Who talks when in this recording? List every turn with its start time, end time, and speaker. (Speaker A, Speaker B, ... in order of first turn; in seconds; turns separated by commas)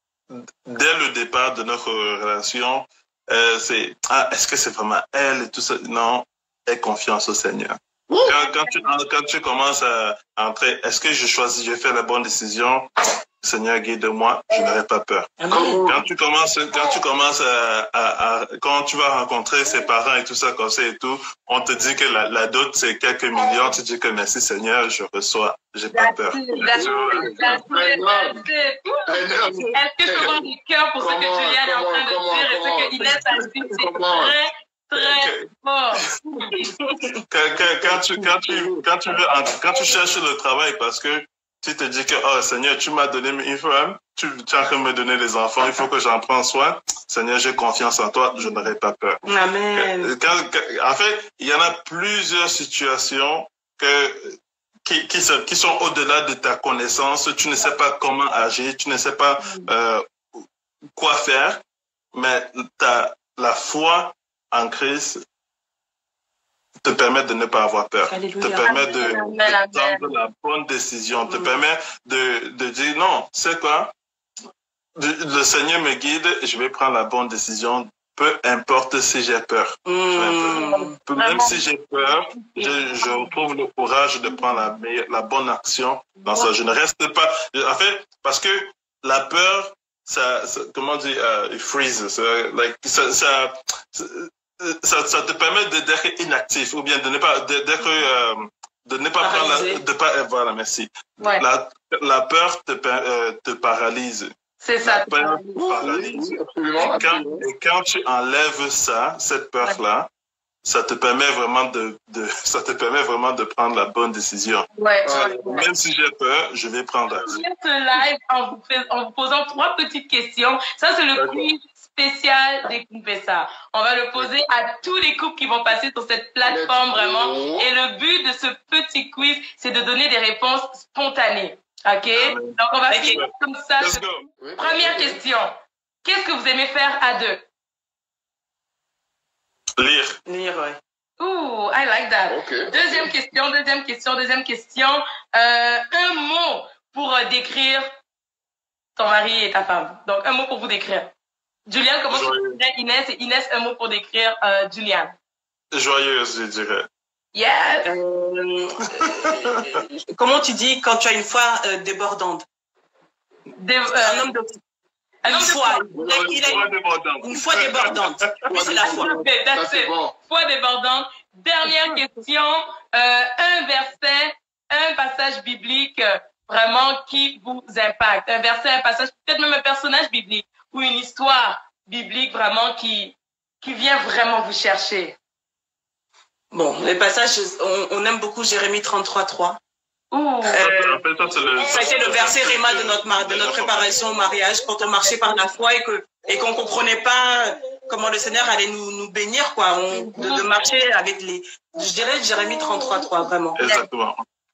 Speaker A: 0.3-27.7, Speaker B: 15.4-15.8, Speaker C: 15.4-15.9, Speaker D: 25.9-29.0, Speaker C: 26.7-28.4, Speaker C: 29.1-30.4, Speaker D: 29.7-36.7, Speaker C: 31.0-34.4, Speaker A: 35.0-35.4, Speaker A: 36.1-36.5, Speaker A: 37.3-49.2, Speaker B: 48.4-48.6, Speaker B: 49.2-50.1, Speaker A: 49.7-60.4, Speaker A: 61.0-61.6, Speaker A: 62.1-65.2, Speaker A: 66.8-73.9, Speaker B: 68.0-69.1, Speaker D: 68.6-70.0, Speaker B: 71.2-71.6, Speaker A: 75.0-110.1, Speaker B: 79.8-81.0, Speaker D: 80.5-83.4, Speaker D: 84.3-84.7, Speaker D: 86.2-86.5, Speaker B: 99.2-99.8, Speaker D: 101.2-101.4, Speaker D: 104.6-105.6, Speaker C: 105.5-107.4, Speaker A: 110.6-117.4, Speaker D: 114.8-115.7, Speaker C: 115.0-115.4, Speaker D: 117.2-134.0, Speaker A: 121.1-121.5, Speaker C: 126.4-127.7, Speaker A: 132.1-132.6, Speaker B: 132.9-133.2, Speaker A: 133.1-134.2, Speaker C: 134.4-135.2, Speaker D: 134.6-135.5, Speaker D: 136.0-137.4, Speaker A: 139.8-140.2, Speaker B: 140.2-140.8, Speaker D: 141.2-147.8, Speaker C: 142.3-143.1, Speaker D: 148.9-151.1, Speaker D: 151.7-155.1, Speaker A: 152.1-152.6, Speaker A: 155.7-156.9, Speaker D: 157.3-157.9, Speaker B: 157.8-158.8, Speaker A: 159.2-159.4, Speaker B: 160.1-162.4, Speaker D: 163.6-164.3, Speaker B: 164.0-164.5, Speaker D: 165.2-166.0, Speaker B: 165.2-166.7, Speaker C: 165.9-166.6, Speaker A: 165.9-168.3, Speaker B: 167.2-169.1, Speaker C: 168.4-170.1, Speaker D: 168.6-185.2, Speaker B: 186.5-189.6, Speaker D: 190.1-190.7, Speaker B: 190.4-191.0, Speaker A: 190.6-194.0, Speaker B: 191.6-203.6, Speaker D: 200.1-200.5, Speaker A: 203.6-204.2